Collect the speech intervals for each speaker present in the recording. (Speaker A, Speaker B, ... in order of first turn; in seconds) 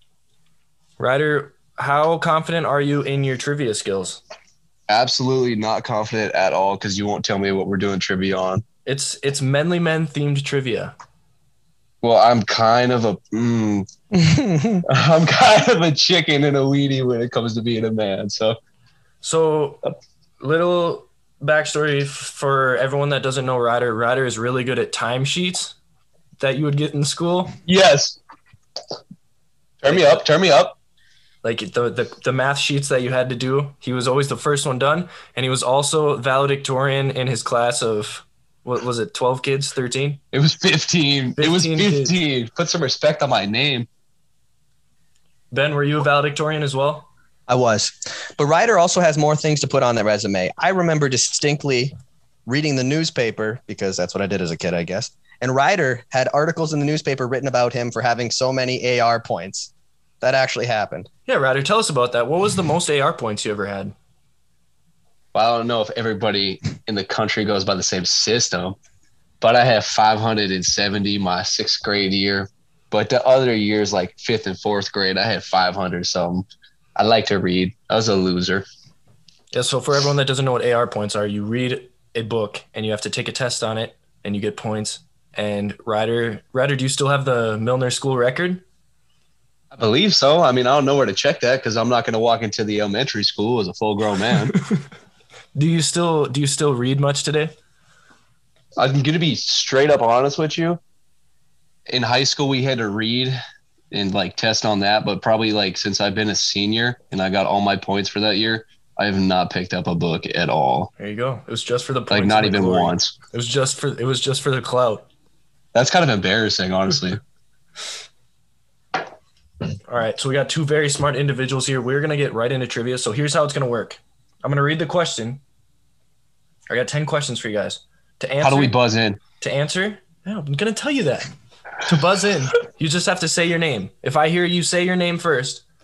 Speaker A: 1.0-4.2, 8.8-10.9, 19.2-19.9, 20.4-25.8, 26.4-27.6, 29.9-30.2, 31.4-40.2, 41.4-42.1, 45.5-47.1, 61.3-63.9, 79.5-88.6, 95.5-97.5, 111.0-115.1, 119.9-125.4, 126.7-128.8, 129.4-131.3, 131.8-135.6
Speaker B: 4.9-8.6, 12.0-13.9, 14.8-18.6, 27.7-28.2, 29.8-30.8, 40.3-43.9, 65.3-68.8, 69.4-78.7, 89.7-94.6, 98.8-100.8, 101.9-103.4, 103.9-110.9, 112.1-113.1, 115.7-117.2, 128.4-129.2
Speaker C: 14.1-14.9, 47.5-51.9, 52.5-61.1